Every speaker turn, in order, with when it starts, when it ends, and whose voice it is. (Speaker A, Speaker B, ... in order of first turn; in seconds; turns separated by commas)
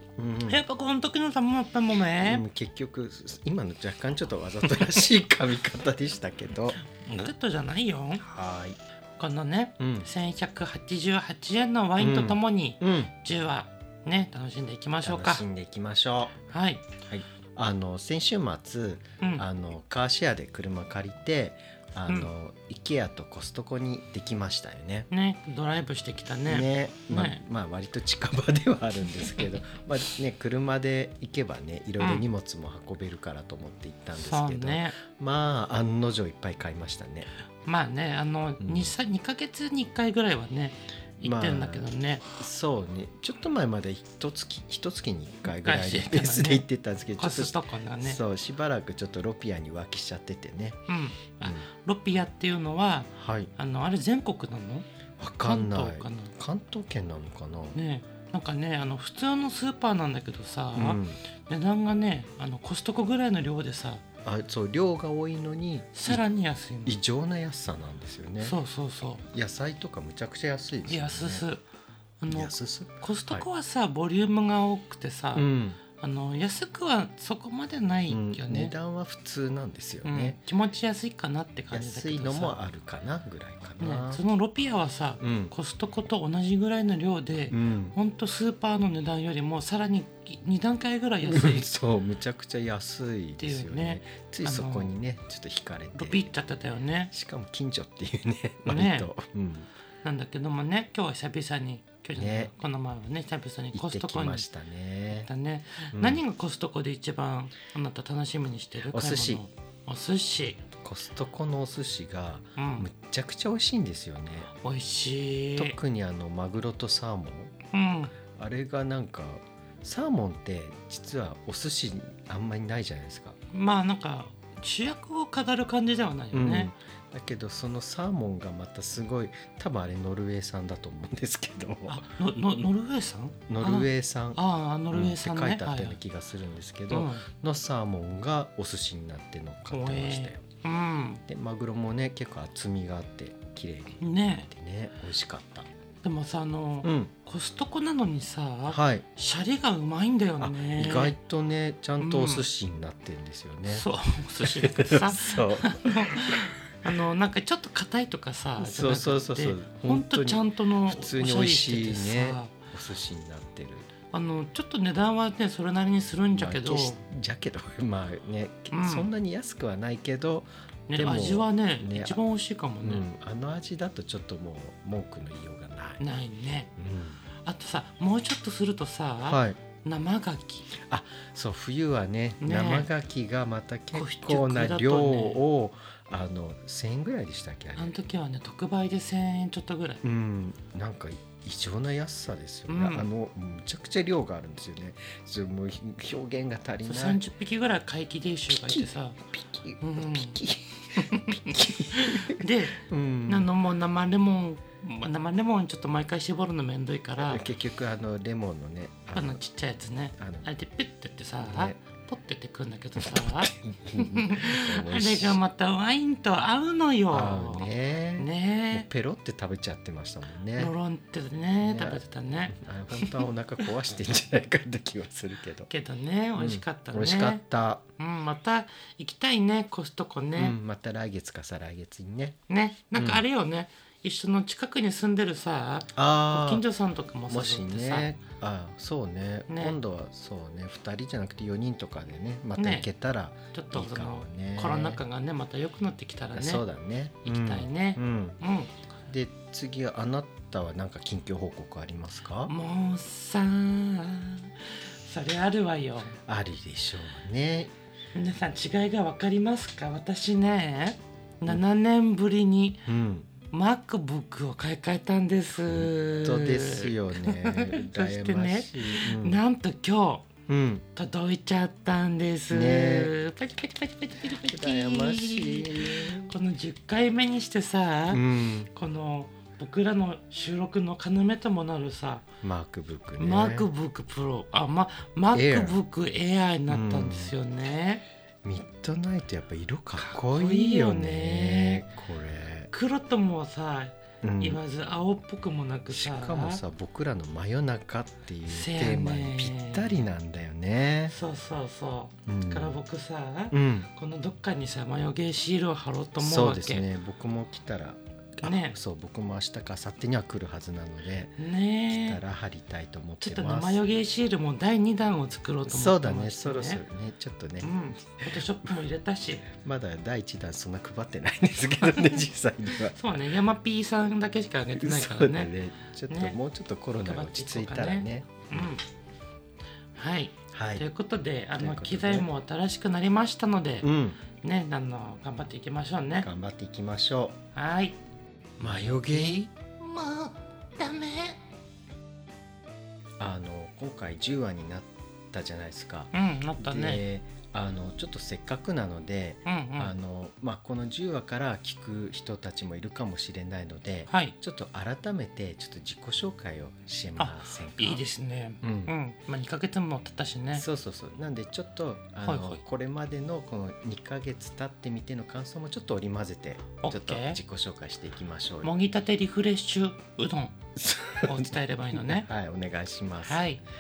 Speaker A: 0.2-0.7, Speaker B: 0.5-2.4, Speaker A: 2.2-6.8, Speaker B: 6.9-8.2, Speaker A: 8.2-8.8, Speaker B: 9.2-15.4, Speaker A: 9.8-10.1, Speaker A: 12.0-13.1, Speaker A: 15.0-16.4, Speaker B: 16.5-16.9, Speaker A: 17.1-25.1, Speaker B: 25.1-27.4, Speaker A: 26.5-37.3, Speaker B: 34.1-35.0, Speaker B: 37.6-42.3, Speaker A: 38.6-38.9, Speaker A: 41.2-50.8, Speaker B: 45.4-46.6, Speaker B: 47.2-48.2, Speaker B: 50.9-54.9, Speaker A: 53.1-53.5, Speaker A: 55.2-57.8, Speaker B: 55.4-56.3, Speaker B: 57.7-64.0, Speaker A: 60.7-61.2, Speaker A: 64.2-66.2, Speaker B: 65.9-67.0, Speaker A: 66.8-68.6, Speaker B: 68.4-69.2, Speaker A: 69.3-71.4, Speaker B: 70.9-71.6, Speaker B: 72.2-78.7, Speaker A: 72.3-73.5, Speaker A: 75.3-75.8, Speaker A: 78.1-80.4, Speaker B: 80.0-82.6, Speaker A: 81.7-84.2, Speaker B: 83.8-91.7, Speaker A: 85.2-85.5, Speaker A: 87.5-88.0, Speaker A: 91.2-96.3, Speaker B: 93.4-94.9, Speaker B: 96.0-97.1, Speaker A: 97.1-99.7, Speaker B: 98.7-99.1, Speaker B: 100.0-104.5, Speaker A: 102.1-102.5, Speaker A: 103.7-105.3, Speaker B: 105.2-110.6, Speaker A: 105.9-106.2, Speaker A: 108.9-109.4, Speaker A: 110.8-114.5, Speaker B: 112.6-112.9, Speaker B: 114.5-115.8, Speaker A: 115.6-117.5, Speaker B: 117.7-118.1, Speaker A: 118.3-123.4, Speaker B: 123.5-126.7, Speaker A: 126.3-132.1, Speaker B: 131.9-135.9, Speaker A: 133.5-134.4, Speaker A: 134.9-140.4, Speaker B: 136.9-137.2, Speaker B: 139.7-141.2, Speaker A: 141.3-145.7, Speaker B: 144.0-144.5, Speaker B: 146.0-151.2, Speaker A: 146.8-147.1, Speaker A: 148.7-149.0, Speaker A: 150.4-153.9, Speaker B: 152.0-152.4, Speaker B: 153.7-162.5, Speaker A: 154.4-156.4, Speaker A: 158.6-163.9, Speaker B: 164.1-167.0, Speaker A: 166.3-172.2, Speaker B: 168.7-169.1, Speaker B: 170.9-173.0, Speaker A: 172.8-176.0, Speaker B: 176.0-176.7, Speaker A: 176.8-177.2, Speaker B: 177.4-180.7, Speaker A: 179.2-179.6, Speaker A: 180.8-187.9, Speaker B: 182.4-182.9, Speaker B: 183.9-185.4, Speaker B: 187.8-190.0, Speaker A: 190.0-197.2, Speaker B: 192.7-193.1, Speaker B: 196.8-199.2, Speaker A: 198.5-203.5, Speaker B: 199.8-200.4, Speaker B: 201.0-207.4, Speaker A: 207.2-209.4, Speaker B: 209.1-218.9, Speaker A: 210.2-210.5, Speaker A: 211.4-211.8, Speaker A: 213.0-215.4, Speaker A: 217.1-220.7, Speaker B: 220.6-223.2, Speaker A: 221.6-225.7, Speaker B: 225.7-227.4, Speaker A: 226.4-227.8, Speaker B: 228.0-230.6, Speaker A: 230.4-232.4, Speaker B: 232.5-238.1, Speaker A: 232.9-233.2, Speaker A: 235.9-236.6, Speaker A: 237.3-245.0, Speaker B: 239.5-239.8, Speaker B: 242.6-242.9, Speaker B: 243.5-246.6, Speaker A: 246.3-248.4, Speaker B: 247.2-248.7, Speaker A: 249.1-252.5, Speaker B: 252.5-256.1, Speaker A: 256.2-257.7, Speaker B: 258.1-262.9, Speaker A: 262.9-263.3, Speaker B: 263.5-270.3, Speaker A: 265.6-269.4, Speaker A: 270.5-270.9, Speaker B: 270.9-282.2, Speaker A: 272.5-273.1, Speaker A: 274.4-276.3, Speaker A: 278.1-278.7, Speaker A: 282.4-283.7, Speaker B: 283.2-288.0, Speaker A: 285.3-285.8, Speaker A: 286.7-287.4, Speaker A: 288.4-292.7, Speaker B: 290.0-291.8, Speaker B: 292.7-296.6, Speaker A: 294.2-294.6, Speaker A: 295.9-301.1, Speaker B: 298.5-299.9, Speaker B: 301.1-306.9, Speaker A: 302.3-302.8, Speaker A: 303.5-303.9, Speaker A: 306.2-311.4, Speaker B: 308.4-308.8, Speaker B: 311.4-312.2, Speaker A: 311.9-313.8, Speaker B: 313.2-316.8, Speaker A: 315.6-317.7, Speaker B: 317.6-319.5, Speaker A: 319.5-323.0, Speaker B: 322.9-325.5, Speaker A: 324.8-328.7, Speaker B: 326.1-326.4, Speaker B: 327.0-328.8, Speaker B: 329.9-336.3, Speaker A: 330.5-330.9, Speaker A: 331.6-332.3, Speaker A: 333.8-334.2, Speaker A: 336.2-337.4, Speaker B: 337.5-338.0, Speaker B: 338.6-341.4, Speaker A: 338.6-339.5, Speaker A: 343.2-358.0, Speaker B: 346.1-347.0, Speaker B: 349.4-349.9, Speaker B: 354.1-354.3, Speaker B: 357.2-360.6, Speaker A: 358.6-358.9, Speaker A: 360.5-368.7, Speaker B: 362.2-362.6, Speaker B: 366.8-367.4, Speaker B: 368.6-370.6, Speaker A: 370.8-373.4, Speaker B: 371.2-372.3, Speaker B: 373.2-373.6